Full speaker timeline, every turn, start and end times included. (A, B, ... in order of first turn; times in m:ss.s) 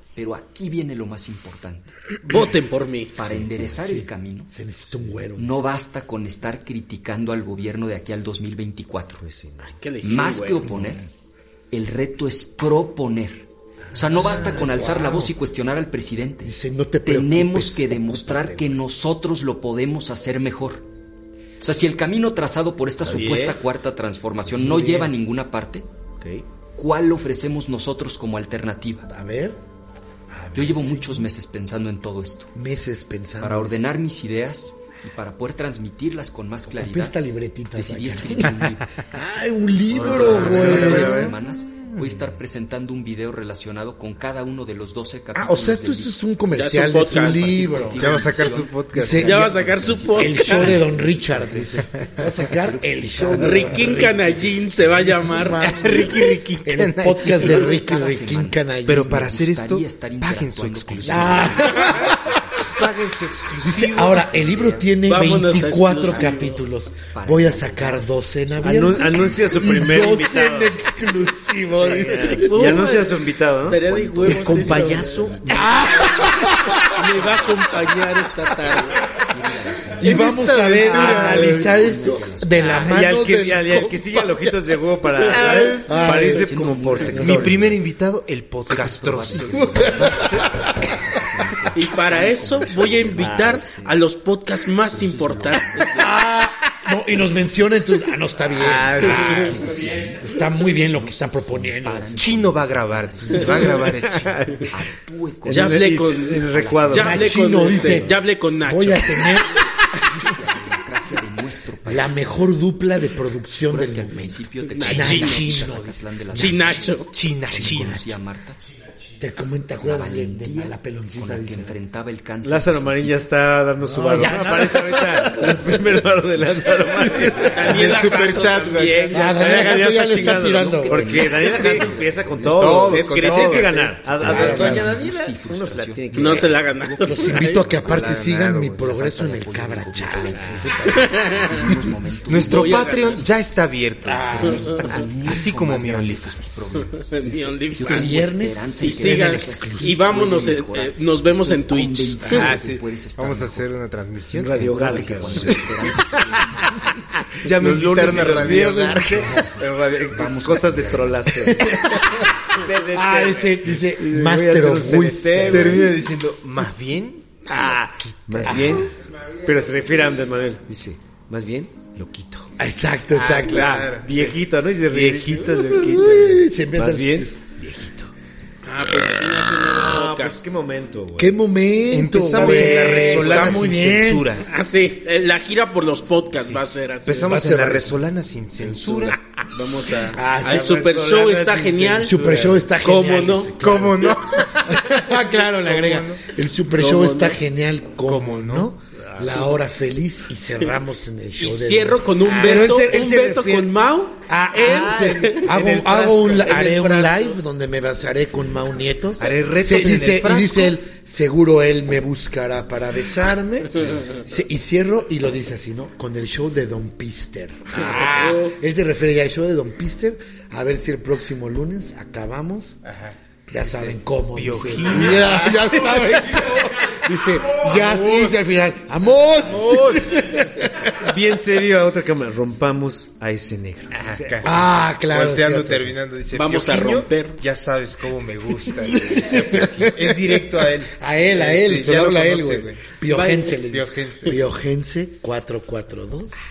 0:00.2-0:02.0 A
0:02.2-0:03.1 B
0:03.2-0:04.5 A
0:03.6-0:05.6 C
0:05.4-0:09.2 A
0:09.2-0:09.8 D
0:09.8-0:10.6 B
0:10.0-0:11.1 A
0:10.7-0:11.0 C
0:11.7-0:16.5 A
0:14.0-0:15.3 C
0:14.2-0:14.6 D
0:16.4-0:18.7 C
0:17.0-0:20.9 A
0:21.6-0:25.9 A
0:23.0-0:23.6 D
0:24.5-0:25.1 C
0:26.2-0:26.5 D
0:26.8-0:29.1 A
0:29.1-0:29.6 C
0:30.5-0:30.9 C
0:30.5-0:32.5 A
0:32.6-0:33.8 C
0:33.4-0:37.1 A
0:36.8-0:41.4 C
0:37.8-0:39.0 A
0:40.0-0:41.1 D
0:40.0-0:41.9 E
0:40.0-0:46.1 A
0:45.4-0:49.6 C
0:46.6-0:47.5 B
0:46.8-0:56.1 A
0:48.0-0:49.3 E
0:49.2-0:50.9 B
0:50.1-0:54.1 C
0:53.4-0:55.8 B
0:55.3-0:59.3 C
0:55.4-0:57.7 E
0:57.4-1:02.5 A
0:58.8-1:04.4 E
1:01.0-1:02.4 C
1:03.6-1:13.0 C
1:04.0-1:05.2 A
1:05.0-1:06.6 B
1:05.8-1:06.5 A
1:07.1-1:09.8 A
1:08.6-1:10.9 D
1:11.8-1:15.9 D
1:12.4-1:15.2 B
1:14.2-1:18.0 A
1:14.3-1:17.0 C
1:16.9-1:19.0 B
1:18.9-1:23.1 A
1:20.0-1:24.5 C
1:20.0-1:21.9 E
1:22.6-1:27.6 D
1:25.3-1:26.0 E
1:25.8-1:26.5 C
1:26.0-1:27.9 A
1:27.1-1:30.0 E
1:28.6-1:33.6 A
1:29.5-1:31.2 C
1:31.7-1:36.0 B
1:33.2-1:34.0 D
1:34.9-1:36.1 A
1:36.0-1:42.4 C
1:37.0-1:37.5 A
1:38.5-1:39.8 D
1:38.6-1:44.1 A
1:39.0-1:39.5 B
1:42.2-1:44.6 E
1:43.7-1:44.8 D
1:44.7-1:48.0 A
1:45.5-1:48.1 D
1:45.5-1:49.3 B
1:46.9-1:50.4 C
1:49.0-1:52.4 A
1:51.8-1:56.9 C
1:53.7-1:58.6 A
1:54.8-1:55.6 B
1:56.4-1:57.1 B
1:57.1-1:58.0 E
1:57.5-1:58.0 C
1:59.2-2:01.8 C
1:59.8-2:03.2 A
2:02.4-2:08.5 D
2:03.8-2:05.8 C
2:07.1-2:09.4 E
2:07.5-2:09.7 B
2:09.1-2:12.0 C
2:09.4-2:16.6 D
2:09.8-2:18.2 A
2:12.5-2:14.9 E
2:14.2-2:15.0 C
2:16.1-2:17.7 B
2:17.0-2:21.8 C
2:17.7-2:18.9 E
2:18.8-2:23.5 A
2:20.9-2:21.6 B
2:22.3-2:26.9 E
2:22.4-2:23.2 B
2:24.0-2:25.1 C
2:24.3-2:33.7 A
2:24.5-2:25.0 B
2:26.9-2:28.1 B
2:27.9-2:30.0 C
2:28.8-2:32.6 B
2:32.2-2:35.8 E
2:34.4-2:36.1 D
2:34.4-2:37.3 A
2:37.3-2:41.8 D
2:37.4-2:39.4 E
2:38.0-2:38.9 A
2:39.2-2:39.5 C
2:40.1-2:41.5 A
2:41.5-2:42.3 C
2:42.5-2:45.9 D
2:43.0-2:45.9 C
2:45.3-2:47.3 E
2:47.5-2:52.5 D
2:48.4-2:48.9 C
2:52.6-2:53.9 C
2:53.1-2:54.4 E
2:53.2-2:58.1 D
2:54.9-2:56.3 E
2:55.7-2:57.4 C
2:58.6-3:00.4 B
2:59.6-3:01.4 D
3:01.2-3:04.3 C
3:01.9-3:04.5 E
3:02.4-3:03.8 B
3:04.4-3:07.4 B
3:06.4-3:09.2 E
3:07.2-3:08.0 C
3:08.6-3:09.2 C
3:09.5-3:12.2 B
3:10.1-3:11.0 C
3:10.4-3:12.7 D
3:12.0-3:23.7 C
3:12.8-3:13.6 B
3:13.6-3:16.2 E
3:16.8-3:17.4 B
3:18.0-3:18.7 E
3:19.1-3:19.5 D
3:21.4-3:27.4 B
3:24.2-3:42.8 C
3:24.6-3:26.6 E
3:29.2-3:30.8 E
3:37.8-3:38.5 B
3:43.0-3:46.1 E
3:43.5-3:50.9 C
3:47.6-3:48.4 E
3:49.4-3:50.4 E
3:51.0-3:54.5 D
3:53.9-4:02.8 E
3:54.4-3:56.0 C
3:56.3-3:57.4 B
3:58.8-4:06.4 C
4:03.1-4:03.6 B
4:03.7-4:04.5 E